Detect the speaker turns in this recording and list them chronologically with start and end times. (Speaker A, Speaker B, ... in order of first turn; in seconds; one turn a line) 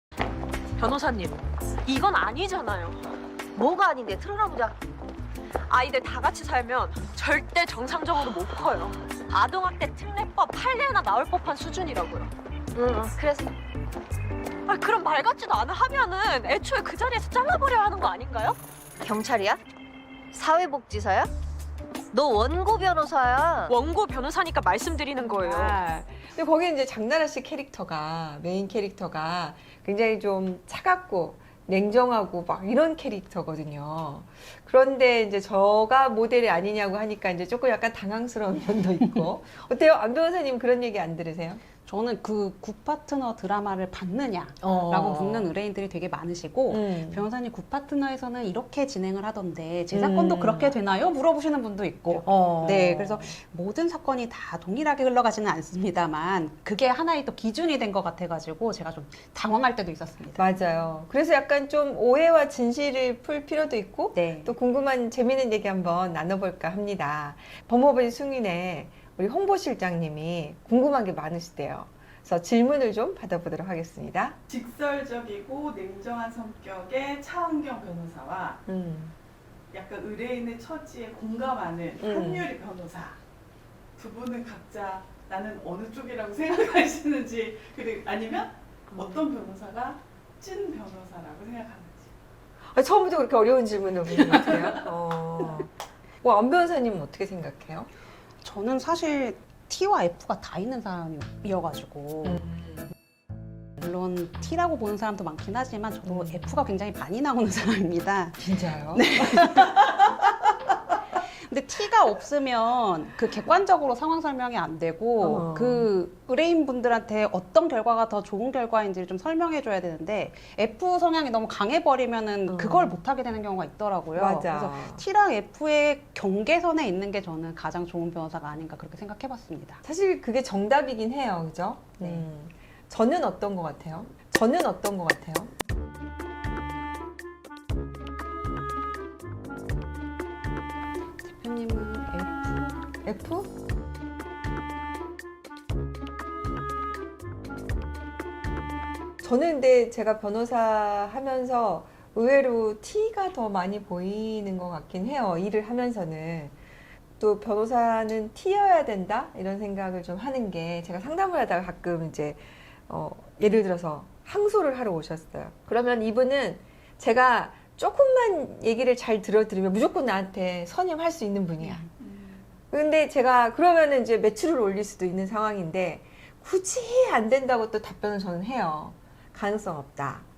Speaker A: 0.8-3.0
Speaker B: 3.5-4.7
Speaker A: 5.7-12.3
Speaker B: 12.7-13.5
Speaker A: 14.7-18.6
Speaker B: 19.0-19.6
Speaker B: 20.3-21.3
Speaker B: 22.1-23.8
Speaker A: 23.7-25.8
Speaker C: 25.2-41.6
Speaker D: 41.9-60.4
Speaker C: 44.6-45.5
Speaker C: 46.7-47.3
Speaker C: 49.9-50.8
Speaker C: 52.2-53.4
Speaker C: 60.4-74.4
Speaker D: 64.1-64.5
Speaker E: 74.5-78.6
Speaker C: 78.7-79.2
Speaker E: 79.7-83.2
Speaker C: 82.0-82.5
Speaker E: 84.0-92.1
Speaker C: 88.9-89.2
Speaker C: 92.7-97.9
Speaker D: 98.4-102.4
Speaker C: 102.2-102.9
Speaker D: 103.8-110.2
Speaker C: 106.0-106.5
Speaker C: 108.4-109.8
Speaker D: 111.4-129.8
Speaker C: 115.2-115.9
Speaker C: 122.5-123.0
Speaker C: 124.2-125.0
Speaker C: 129.8-135.5
Speaker D: 141.2-142.9
Speaker C: 143.1-143.5
Speaker C: 149.2-156.5
Speaker C: 157.2-171.9
Speaker E: 172.0-172.4
Speaker C: 172.7-180.2